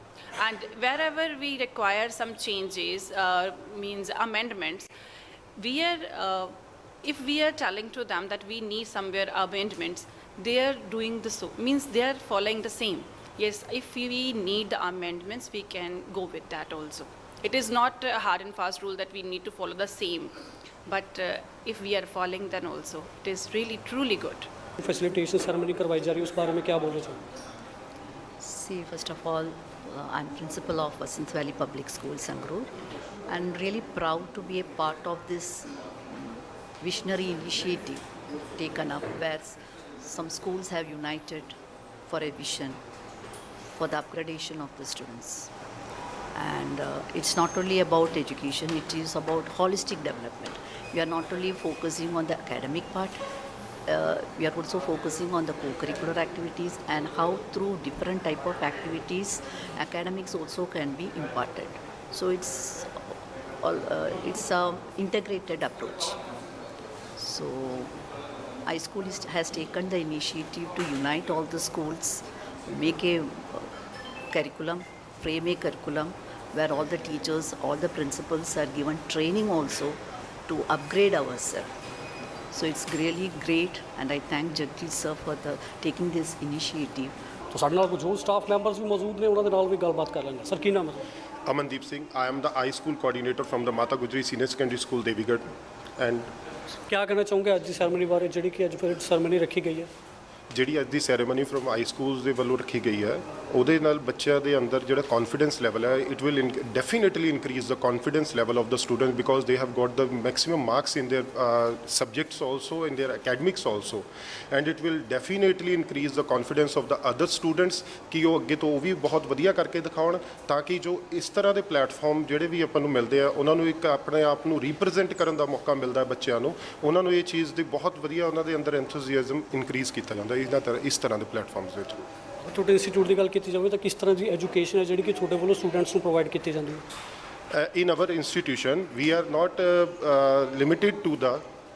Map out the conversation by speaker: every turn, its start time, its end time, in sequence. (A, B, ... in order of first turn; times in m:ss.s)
0:00.4-0:04.9 A
0:05.6-0:06.5 A
0:07.0-0:20.3 A
0:20.9-0:24.5 A
0:24.8-0:27.2 B
0:28.4-0:32.7 C
0:33.3-0:38.0 C
0:38.6-0:41.6 C
0:42.1-0:42.8 C
0:43.8-0:45.5 C
0:46.4-0:53.2 C
0:53.9-1:02.9 C
1:03.6-1:06.2 C
1:07.2-1:07.9 C
1:08.7-1:13.7 C
1:14.3-1:21.7 C
1:22.5-1:27.1 C
1:27.5-1:31.0 B
1:31.5-1:35.5 D
1:36.0-1:36.3 D
1:36.9-1:39.9 B
1:40.5-2:12.1 D
2:12.4-2:16.8 B
2:17.5-2:21.4 D